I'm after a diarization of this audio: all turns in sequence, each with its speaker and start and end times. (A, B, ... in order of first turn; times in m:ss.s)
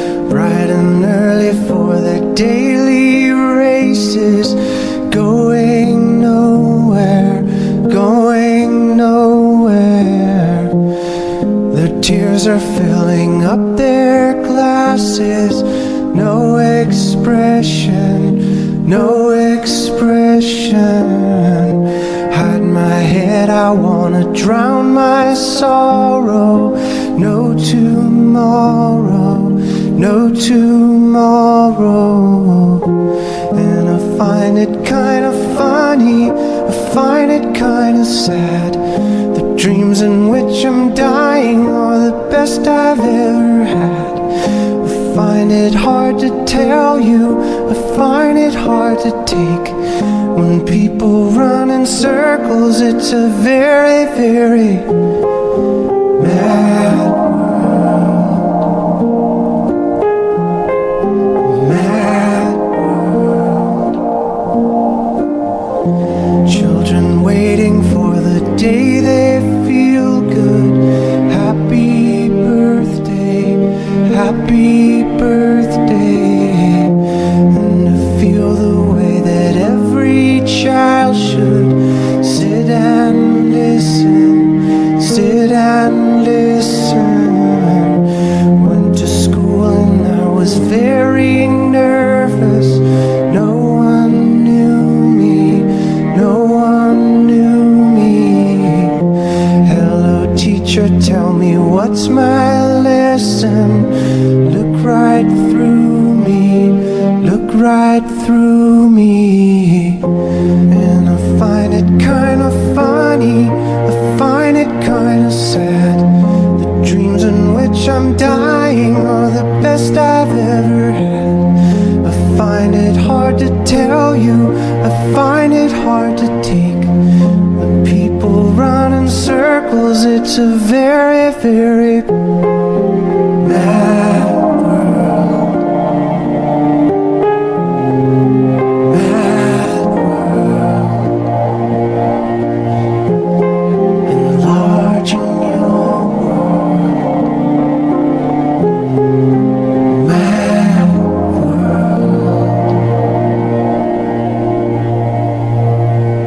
0:00.3-0:10.8 A
0:11.7-0:33.0 A
0:33.5-0:38.8 A
0:39.3-0:44.2 A
0:44.8-0:49.8 A
0:50.3-0:54.9 A
0:56.2-0:57.7 A
1:01.4-1:03.8 A
1:06.4-1:17.0 A
1:17.5-1:28.0 A
1:28.6-1:39.1 A
1:39.6-1:50.1 A
1:50.7-2:06.9 A
2:07.5-2:12.2 A
2:13.4-2:15.4 A
2:18.9-2:20.9 A
2:24.1-2:26.5 A
2:30.0-2:32.1 A